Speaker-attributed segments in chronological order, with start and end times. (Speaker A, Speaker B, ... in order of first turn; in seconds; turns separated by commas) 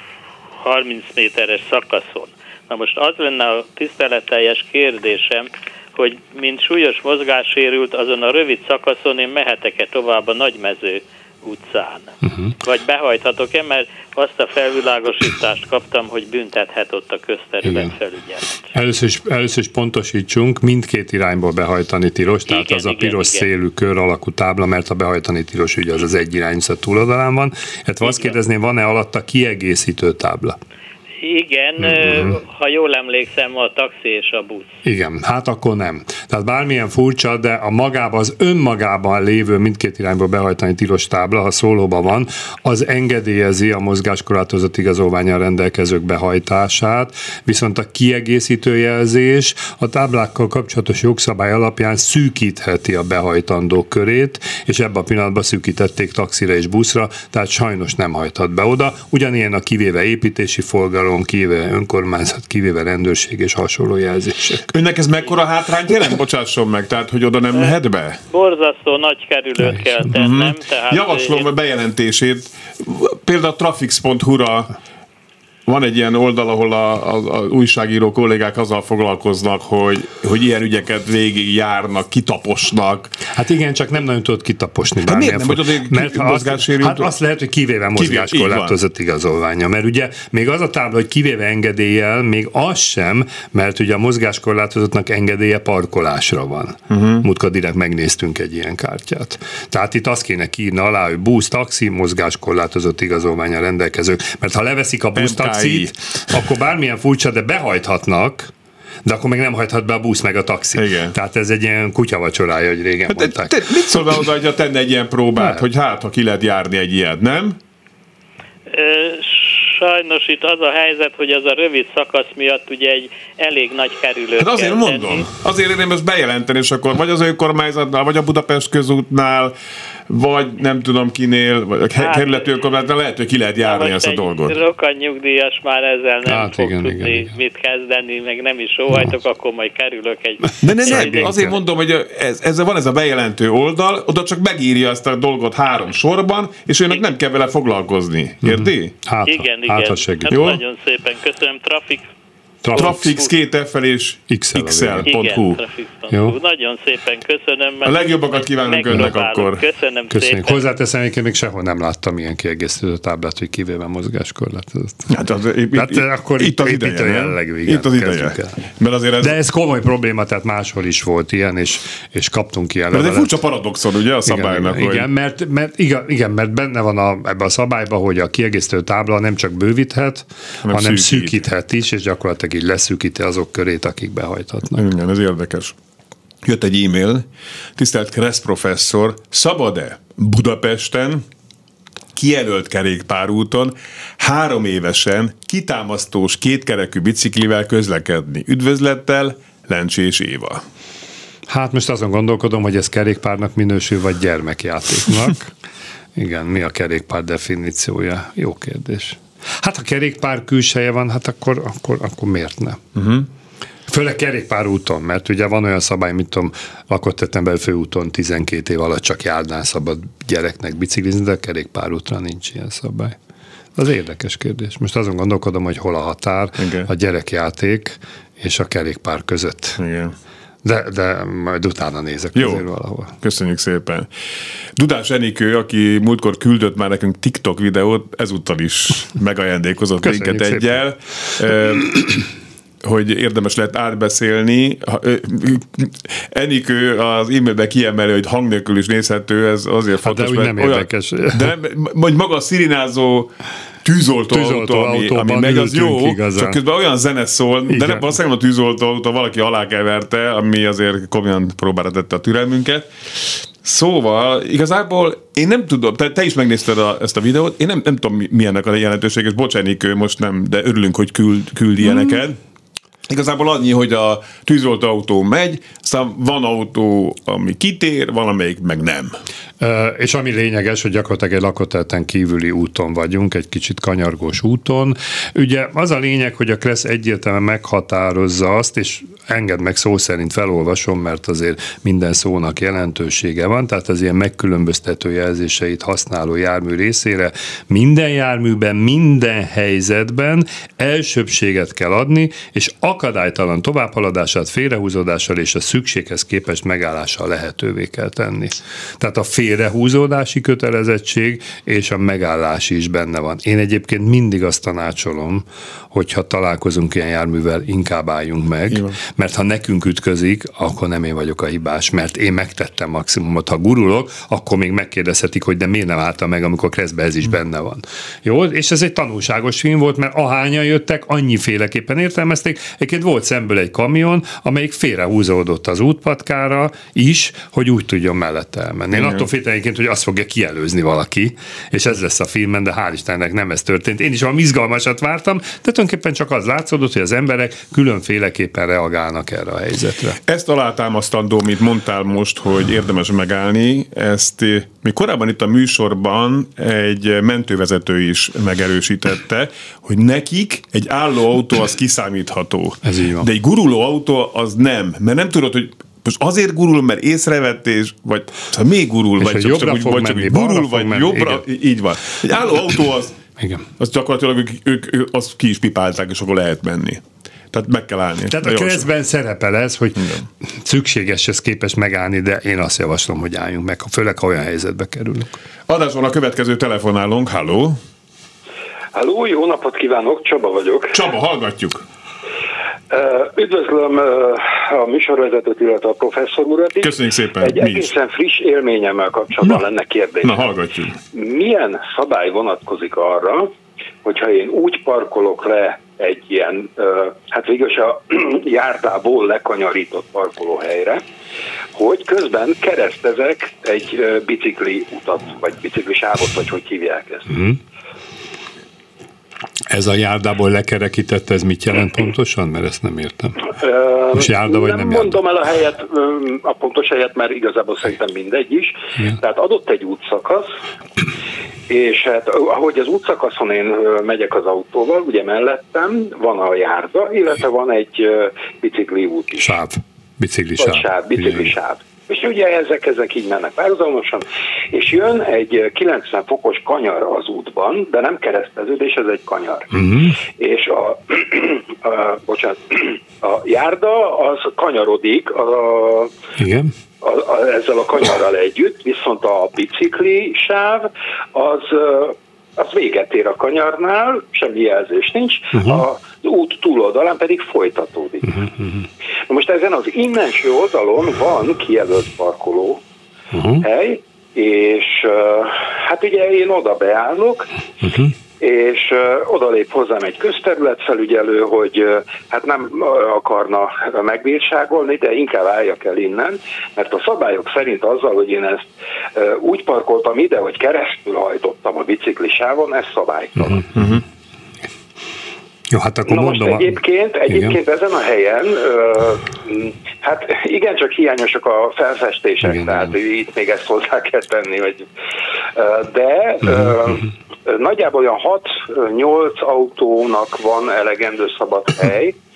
Speaker A: 0.6-18.6, Speaker B: 17.6-17.9, Speaker B: 18.7-30.6, Speaker A: 22.5-23.5, Speaker A: 28.0-28.3, Speaker A: 31.2-34.7, Speaker B: 31.8-32.4, Speaker B: 34.8-64.7, Speaker C: 64.7-68.2, Speaker A: 68.3-71.5, Speaker B: 69.6-70.1, Speaker C: 70.1-74.7, Speaker C: 75.7-83.2, Speaker B: 83.3-108.5, Speaker C: 85.0-87.1, Speaker C: 88.0-88.8, Speaker C: 96.9-97.3, Speaker C: 105.2-106.3, Speaker B: 109.0-113.5, Speaker C: 110.7-111.1, Speaker C: 113.1-117.5, Speaker B: 115.4-115.7, Speaker A: 118.7-125.3, Speaker C: 124.4-129.5, Speaker C: 130.1-134.6, Speaker A: 131.9-132.5, Speaker A: 133.6-141.3, Speaker B: 136.2-137.3, Speaker C: 140.6-148.9, Speaker B: 140.8-141.6, Speaker B: 148.4-150.4, Speaker A: 149.3-152.1, Speaker C: 150.3-150.6, Speaker B: 152.6-153.1, Speaker A: 152.7-153.3, Speaker C: 152.7-155.6, Speaker B: 154.3-155.1, Speaker A: 155.1-160.6, Speaker B: 156.1-156.3, Speaker C: 157.8-159.6, Speaker B: 160.1-165.1, Speaker C: 165.1-169.3, Speaker B: 165.7-168.6, Speaker B: 169.2-173.4, Speaker C: 172.9-175.1, Speaker B: 174.2-184.8, Speaker C: 180.6-181.4, Speaker C: 184.7-185.7, Speaker C: 186.4-187.2, Speaker C: 187.8-191.2, Speaker C: 192.2-200.6, Speaker B: 201.5-205.5, Speaker B: 206.2-212.8, Speaker C: 212.9-213.3, Speaker B: 213.9-223.2, Speaker B: 223.8-229.8, Speaker C: 226.6-226.9, Speaker C: 229.8-230.1, Speaker B: 230.6-233.1, Speaker C: 232.3-232.7, Speaker C: 233.2-234.1, Speaker C: 234.8-242.3, Speaker B: 240.0-240.8, Speaker C: 242.8-253.3, Speaker B: 250.0-251.5, Speaker C: 253.8-262.9, Speaker B: 254.3-256.6, Speaker B: 257.7-258.1, Speaker C: 263.6-272.4, Speaker C: 273.1-279.1, Speaker B: 279.6-350.2, Speaker C: 318.7-319.0, Speaker C: 338.9-339.3, Speaker C: 350.3-373.1, Speaker B: 362.8-363.3, Speaker B: 369.2-371.4, Speaker B: 373.4-373.6, Speaker C: 373.8-378.9, Speaker B: 378.3-380.1, Speaker C: 380.0-380.2, Speaker B: 380.6-385.4, Speaker C: 385.7-387.8, Speaker D: 388.9-391.0, Speaker C: 390.9-391.8, Speaker D: 392.9-400.5, Speaker C: 396.8-397.9, Speaker C: 400.2-401.0, Speaker D: 401.1-403.5, Speaker D: 404.0-411.0, Speaker D: 411.7-417.3, Speaker B: 417.3-417.6, Speaker B: 419.7-423.4, Speaker D: 423.5-430.6, Speaker B: 424.1-425.2, Speaker D: 431.7-439.5, Speaker B: 439.4-441.5, Speaker D: 440.6-456.1, Speaker B: 449.7-450.1, Speaker B: 456.4-456.7, Speaker D: 457.0-468.4, Speaker B: 465.5-465.8, Speaker B: 468.3-468.6, Speaker D: 469.3-472.8, Speaker B: 473.3-473.6, Speaker D: 473.6-477.5, Speaker B: 477.8-478.1, Speaker D: 478.4-493.6, Speaker B: 493.4-493.9, Speaker C: 493.8-494.0, Speaker B: 495.7-497.6, Speaker D: 496.1-504.9, Speaker B: 502.4-502.9, Speaker D: 505.5-512.1